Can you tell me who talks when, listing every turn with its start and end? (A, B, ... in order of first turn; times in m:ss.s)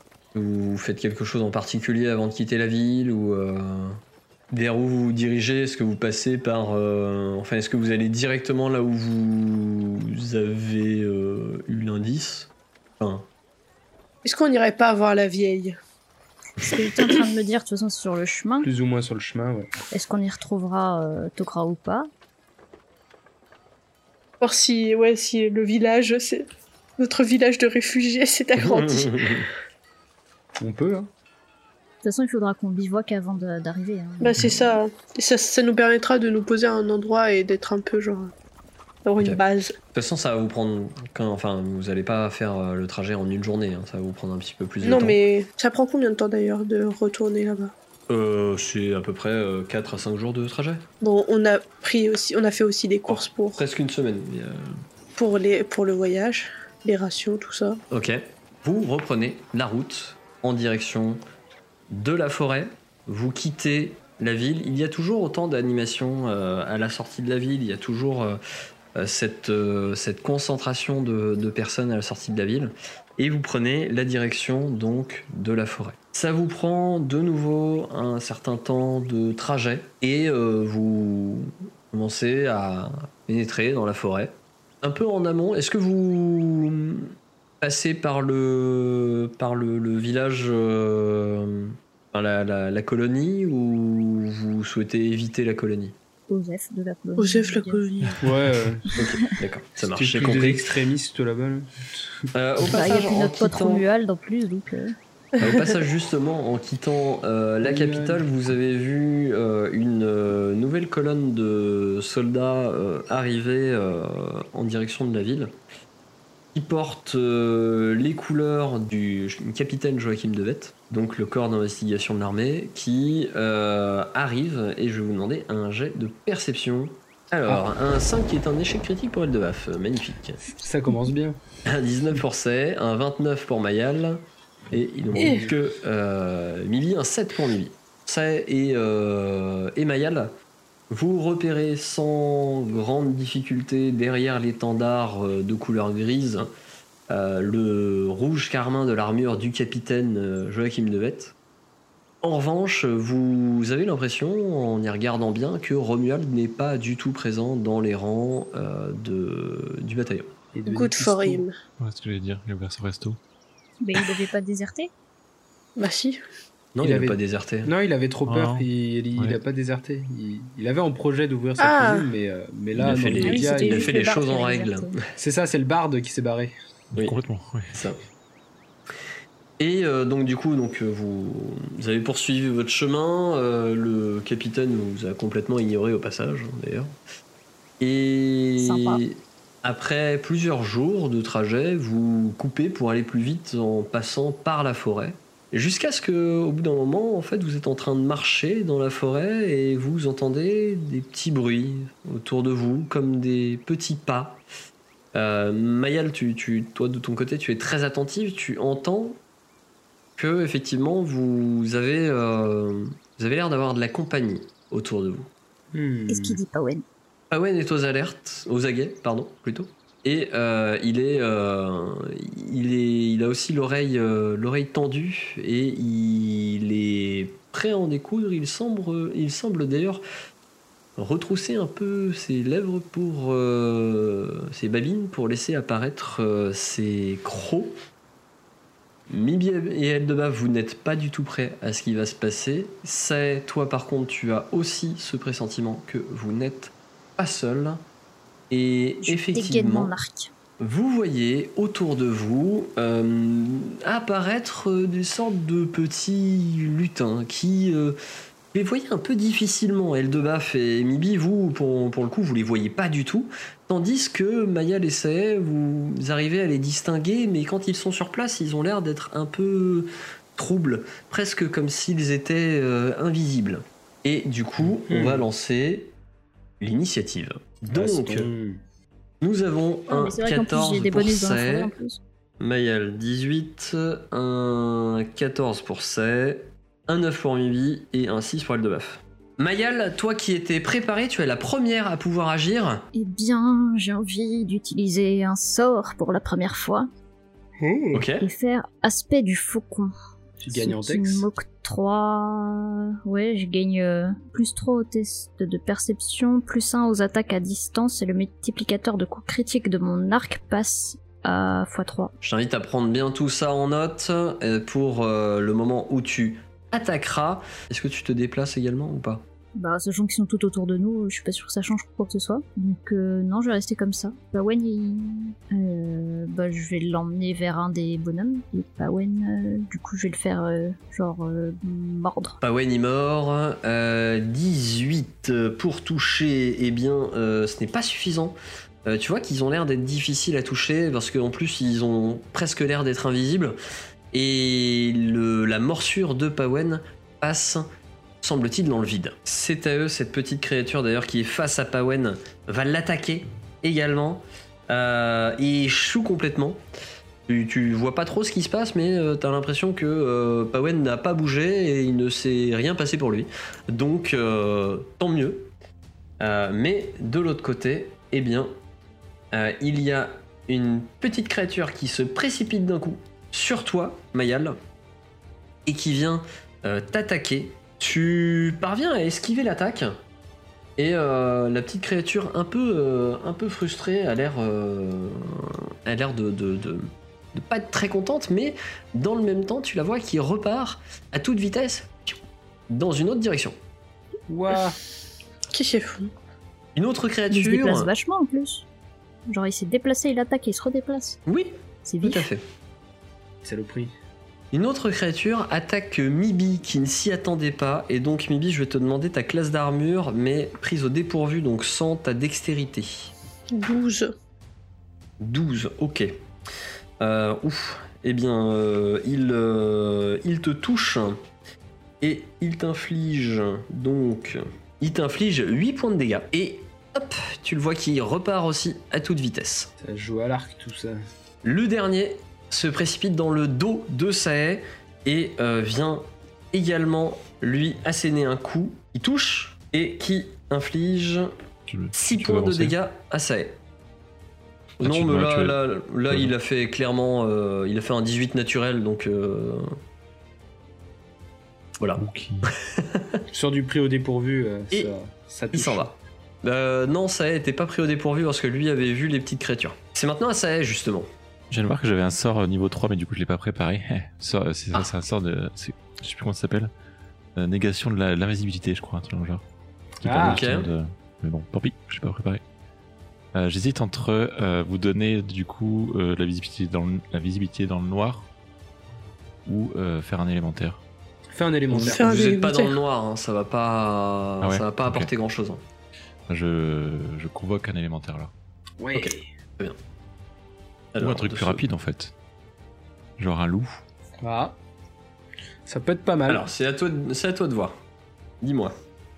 0:00.3-0:13.3 A
0:14.2-0:15.8 B
0:16.6-0:18.7 C
0:18.6-0:19.7 D
0:19.9-0:22.1 C
0:24.4-0:26.5 B
0:27.0-0:29.2 B
0:28.6-0:29.5 A
0:30.6-0:31.1 D
0:32.0-0:34.8 C
0:34.2-0:38.3 B
0:39.0-0:39.8 B
0:39.9-0:45.2 A
0:44.8-0:47.7 B
0:48.1-0:50.9 A
0:51.0-0:53.6 B
0:53.1-0:54.7 A
0:55.2-0:57.8 B
0:57.9-1:01.2 A
1:01.9-1:08.4 A
1:09.0-1:36.0 A
1:36.3-1:37.8 C
1:37.2-1:38.2 B
1:38.2-1:39.0 D
1:39.0-1:40.8 A
1:39.8-1:42.2 D
1:42.3-1:43.8 A
1:42.7-1:45.0 C
1:45.4-1:45.6 B
1:45.4-1:55.5 A
1:47.6-1:48.3 D
1:56.5-2:10.4 A
2:10.5-2:11.4 D
2:11.7-2:20.3 A
2:15.2-2:15.5 B
2:20.9-2:26.5 A
2:27.1-2:31.3 A
2:32.2-2:40.3 A
2:40.5-2:41.4 D
2:40.7-2:41.5 B
2:41.8-2:43.2 E
2:43.8-2:44.9 C
2:45.8-2:46.2 B
2:46.7-2:47.7 A
2:46.8-2:53.9 D
2:48.3-2:48.7 E
2:51.6-2:52.0 B
2:52.8-2:55.0 A
2:53.2-2:54.9 C
2:55.2-2:56.5 D
2:57.0-2:57.8 E
2:57.7-2:58.0 A
2:59.6-3:06.9 A
3:07.8-3:24.4 A
3:08.6-3:09.0 C
3:25.1-3:29.2 A
3:30.2-3:35.3 A
3:35.7-3:36.4 D
3:36.1-3:36.8 C
3:37.3-3:50.0 A
3:51.0-3:57.8 A
3:59.1-4:07.8 A
4:08.5-4:09.9 A
4:09.0-4:10.3 C
4:10.6-4:18.0 A
4:18.5-4:36.0 A
4:34.6-4:35.3 D
4:36.6-4:38.3 A
4:37.7-4:38.6 D
4:39.2-4:41.7 A
4:39.9-4:42.0 C
4:42.4-4:52.8 A
4:52.9-4:56.9 C
4:57.6-4:58.0 D
4:57.9-4:58.3 A
4:58.2-4:59.9 C
5:00.4-5:01.3 D
5:00.5-5:12.1 C
5:12.2-5:19.2 A
5:19.6-5:32.4 C
5:32.4-5:43.6 A
5:44.1-5:47.7 A
5:48.2-5:56.6 A
5:57.3-6:05.5 A
6:06.2-6:08.6 A
6:09.3-6:14.6 A
6:15.7-6:20.0 A
6:20.8-6:32.2 A
6:32.7-6:33.6 A
6:34.3-6:34.8 D
6:35.5-6:36.1 B
6:36.8-6:37.9 A
6:37.3-6:38.7 C
6:39.3-6:41.2 C
6:41.3-6:42.4 A
6:41.8-6:42.3 C
6:43.4-6:43.9 D
6:44.5-6:53.1 A
6:53.5-6:54.1 B
6:55.2-6:56.2 A
6:57.0-7:01.2 A
7:02.0-7:09.7 A
7:09.8-7:11.0 D
7:11.4-7:21.3 A
7:21.7-7:22.8 E
7:21.9-7:23.6 A
7:24.8-7:26.3 E
7:24.8-7:29.7 A
7:31.8-7:33.2 A
7:32.0-7:32.5 E
7:33.3-7:35.9 D
7:35.5-7:41.1 A
7:41.5-7:46.7 E
7:47.4-7:49.4 E
7:50.0-7:52.4 E
7:50.0-7:50.4 D
7:50.2-7:50.7 A
7:53.3-7:58.3 E
7:59.5-8:00.8 E
8:01.3-8:02.2 D
8:01.7-8:05.6 A
8:01.8-8:02.8 B
8:04.4-8:05.1 E
8:06.3-8:08.3 E
8:08.8-8:09.2 D
8:09.0-8:09.8 A
8:10.9-8:11.6 A
8:11.0-8:12.1 E
8:13.2-8:13.8 E
8:14.2-8:14.6 D
8:15.7-8:16.5 D
8:16.3-8:17.8 A
8:18.4-8:18.8 A